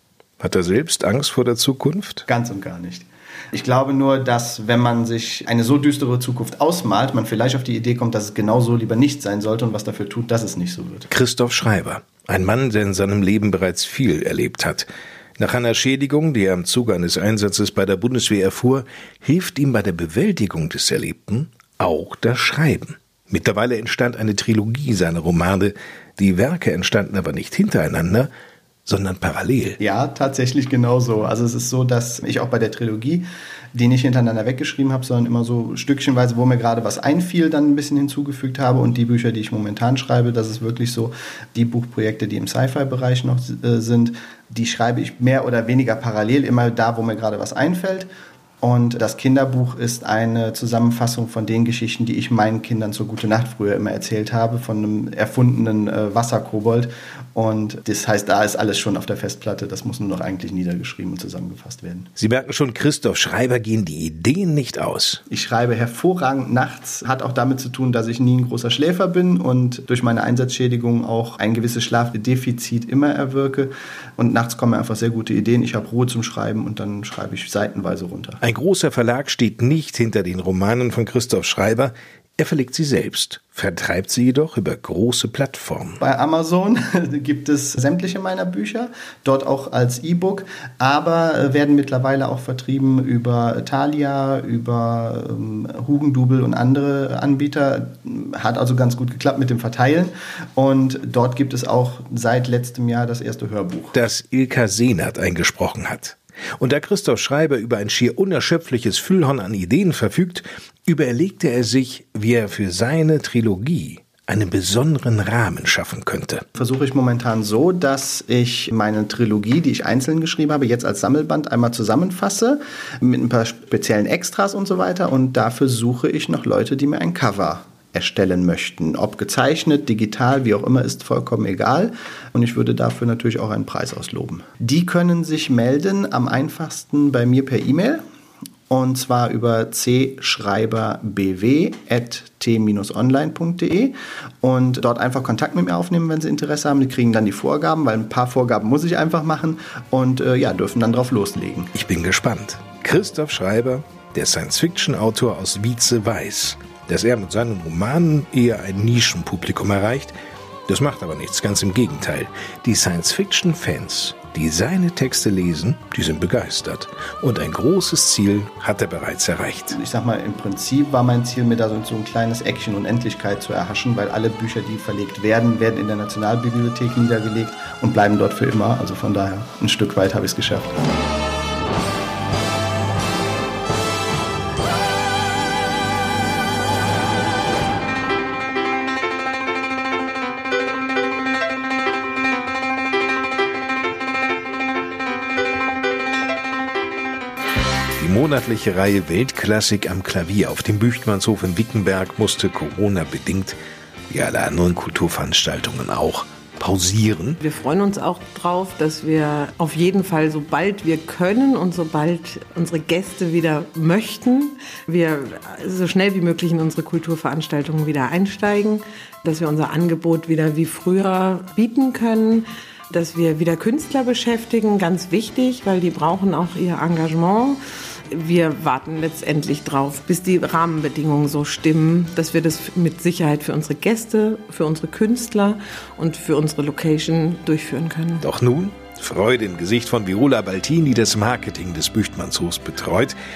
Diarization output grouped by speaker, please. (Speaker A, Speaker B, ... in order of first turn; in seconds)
Speaker A: 0.4-2.2, 11.1-28.3, 28.9-29.8, 62.2-65.2, 78.4-86.0, 103.9-116.4, 151.7-160.1, 160.7-169.8, 198.0-203.6, 204.1-207.4, 238.2-243.2
Speaker B: 2.3-11.1, 29.8-48.1, 48.6-62.1, 65.3-78.4, 86.0-104.0, 116.6-138.0, 138.7-151.7, 169.7-180.7
Speaker C: 207.4-227.6, 228.1-238.2